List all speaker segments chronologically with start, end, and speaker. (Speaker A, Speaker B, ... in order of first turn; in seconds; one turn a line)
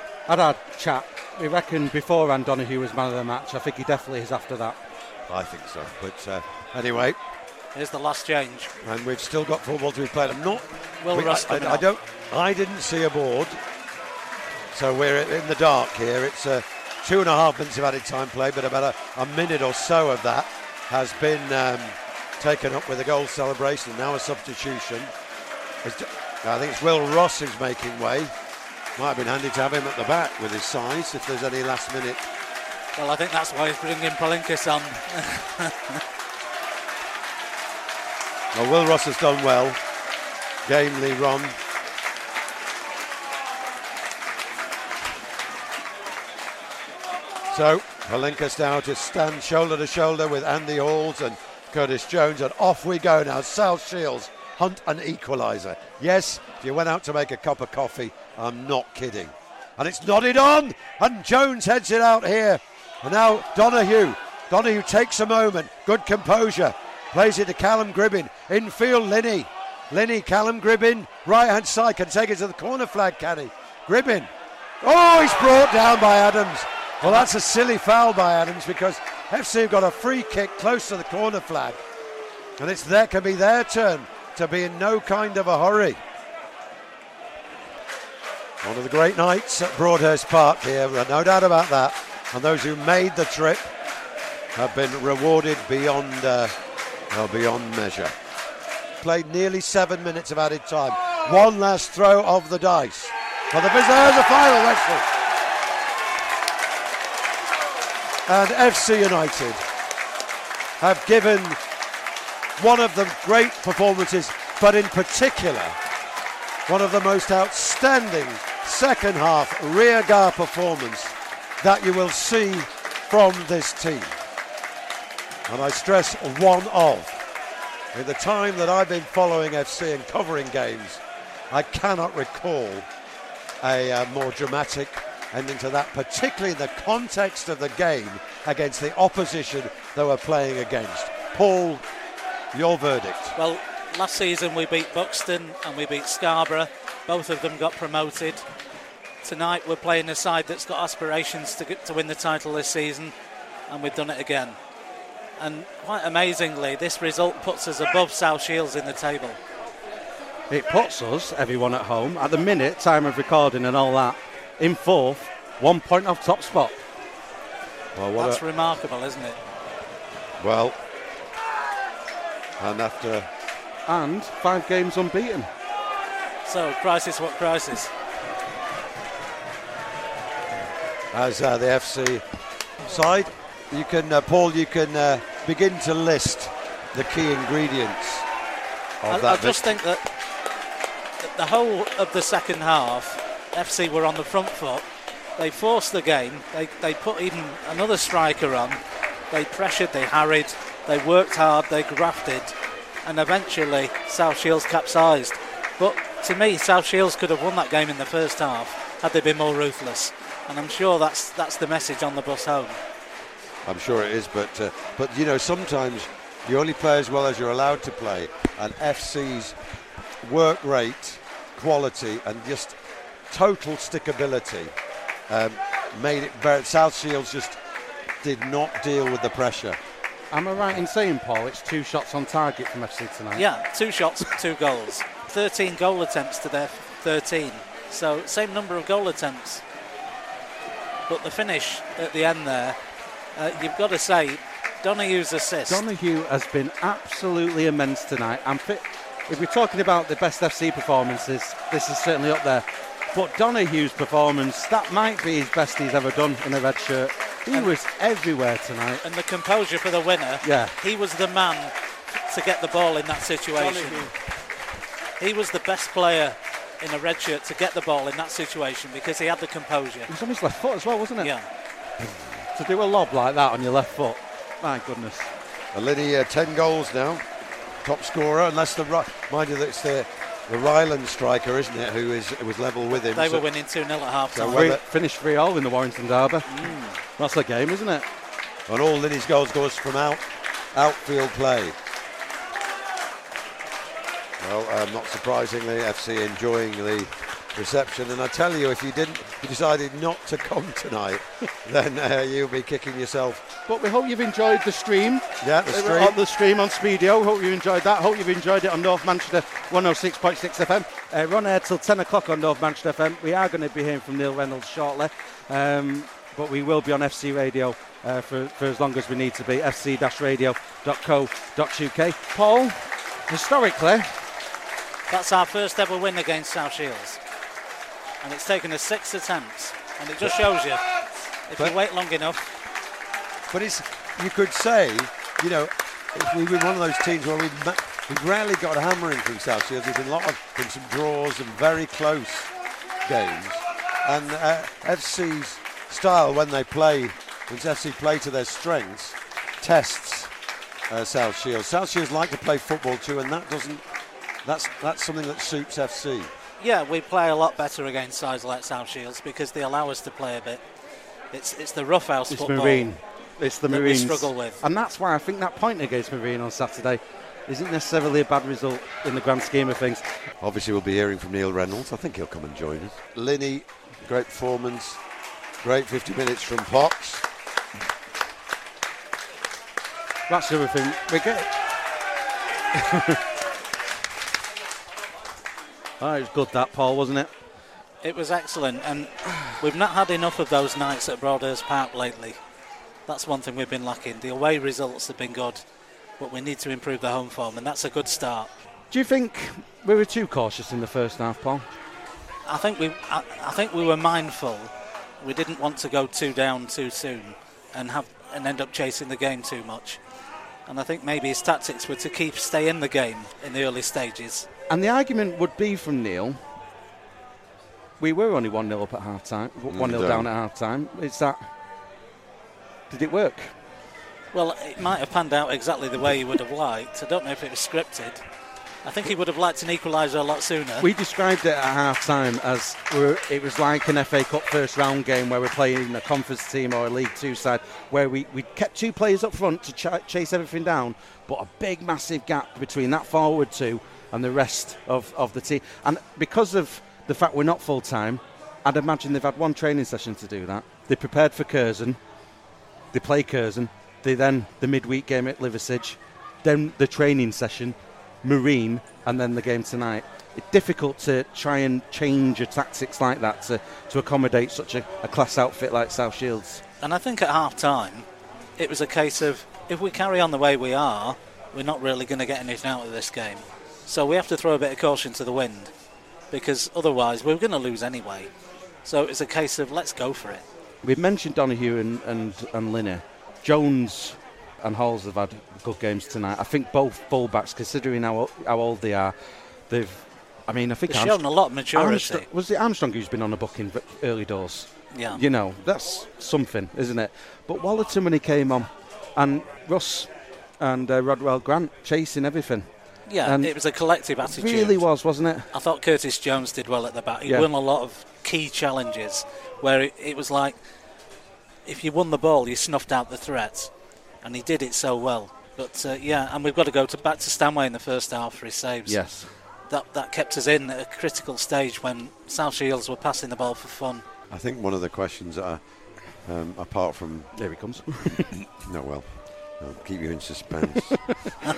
Speaker A: 0.3-4.8
Speaker B: 5.3-7.2
Speaker C: 7.7-8.7
Speaker B: 8.8-13.6
Speaker C: 11.0-11.8
Speaker B: 14.7-25.1
Speaker B: 25.8-28.3
Speaker B: 29.0-32.2
Speaker C: 33.0-36.0
Speaker B: 38.5-39.8
Speaker B: 40.6-41.6
Speaker B: 47.5-81.8
Speaker B: 82.6-86.0
Speaker B: 88.6-93.7
Speaker B: 94.5-96.5
Speaker B: 97.1-98.1
Speaker B: 99.0-105.1
Speaker B: 108.3-109.6
Speaker B: 110.8-111.6
Speaker B: 112.6-115.8
Speaker B: 116.7-124.1
Speaker B: 125.5-127.2
Speaker B: 127.9-132.9
Speaker B: 133.6-141.8
Speaker B: 142.5-143.3
Speaker C: 143.3-148.4
Speaker C: 149.2-153.1
Speaker C: 153.7-154.6
Speaker C: 155.4-159.4
Speaker A: 160.5-166.8
Speaker B: 167.9-168.4
Speaker C: 168.2-169.4
Speaker B: 170.4-170.8
Speaker B: 172.6-173.3
Speaker A: 173.9-175.5
Speaker C: 176.4-177.9
Speaker B: 181.1-182.2
Speaker B: 182.8-188.2
Speaker B: 189.0-189.7
Speaker C: 189.1-190.1
Speaker C: 191.2-194.8
Speaker C: 195.4-212.8
Speaker B: 213.6-219.6
Speaker B: 220.2-222.8
Speaker B: 223.3-224.7
Speaker B: 225.3-227.6
Speaker B: 228.2-229.8
Speaker A: 230.3-233.5
Speaker C: 233.3-239.6
Speaker C: 241.1-242.8
Speaker C: 243.3-245.8
Speaker A: 245.7-259.0
Speaker C: 259.0-261.7
Speaker A: 260.4-260.7
Speaker C: 262.3-264.1
Speaker A: 263.6-264.1
Speaker C: 265.2-270.1
Speaker A: 270.1-271.3
Speaker C: 271.2-271.5
Speaker A: 272.5-275.3
Speaker B: 275.7-277.2
Speaker B: 277.8-283.4
Speaker C: 282.9-284.7
Speaker B: 284.3-284.8
Speaker A: 284.5-288.1
Speaker C: 286.5-287.0
Speaker B: 288.7-291.8
Speaker B: 294.4-303.4
Speaker A: 303.7-324.1
Speaker B: 305.4-306.2
Speaker C: 325.1-327.2
Speaker C: 328.2-330.8
Speaker C: 331.5-332.5
Speaker B: 333.5-342.5
Speaker B: 343.0-350.3
Speaker B: 350.9-353.8
Speaker B: 354.4-356.3
Speaker C: 356.6-360.6
Speaker C: 361.3-362.9
Speaker A: 362.3-370.2
Speaker C: 363.7-364.6
Speaker B: 370.4-375.0
Speaker B: 375.6-377.2
Speaker A: 380.3-381.5
Speaker A: 382.7-383.2
Speaker A: 386.0-387.3
Speaker C: 388.0-392.4
Speaker C: 393.1-395.6
Speaker C: 396.2-398.5
Speaker A: 398.9-401.6
Speaker C: 402.4-410.0
Speaker C: 410.7-414.5
Speaker A: 414.7-416.4
Speaker A: 418.0-421.5
Speaker B: 419.7-420.3
Speaker A: 422.9-423.5
Speaker C: 424.3-428.2
Speaker C: 428.8-430.9
Speaker A: 430.8-452.0
Speaker A: 452.9-466.6
Speaker C: 466.8-475.7
Speaker C: 476.3-478.3
Speaker C: 478.8-480.4
Speaker A: 480.8-489.1
Speaker A: 489.7-502.7
Speaker C: 490.9-492.2
Speaker C: 494.9-495.2
Speaker C: 503.1-504.8
Speaker A: 503.2-503.5
Speaker A: 504.2-505.5
Speaker C: 505.5-510.6
Speaker C: 511.6-513.7
Speaker C: 514.2-519.1
Speaker A: 518.9-519.3
Speaker C: 519.7-524.0
Speaker B: 524.3-525.6
Speaker B: 526.2-527.3
Speaker A: 527.3-528.5
Speaker B: 528.6-531.0